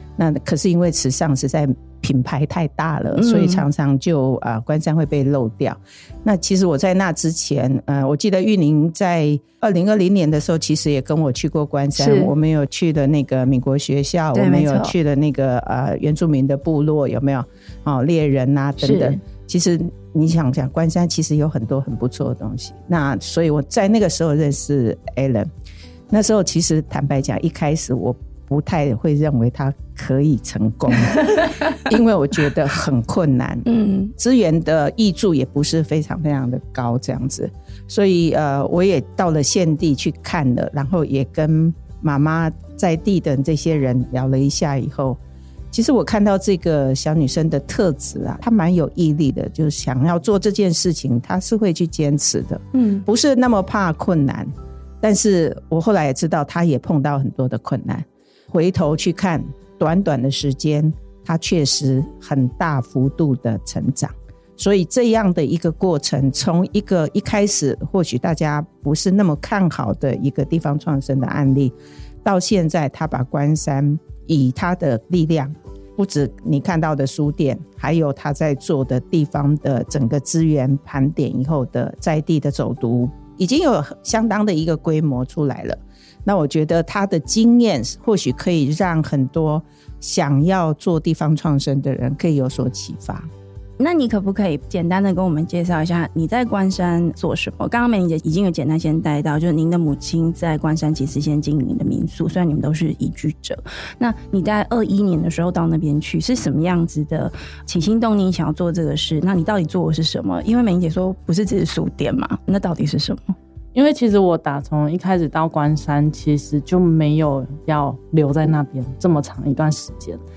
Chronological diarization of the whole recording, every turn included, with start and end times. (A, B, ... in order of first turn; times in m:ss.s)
0:00.2-0:25.5 A
0:03.2-0:03.6 B
0:12.0-0:12.3 B
0:14.3-0:14.9 B
0:18.8-0:19.2 B
0:26.1-0:45.2 A
0:33.7-0:34.1 B
0:45.7-1:33.3 A
0:52.8-0:53.0 B
1:33.8-1:53.4 B
1:53.8-2:00.2 C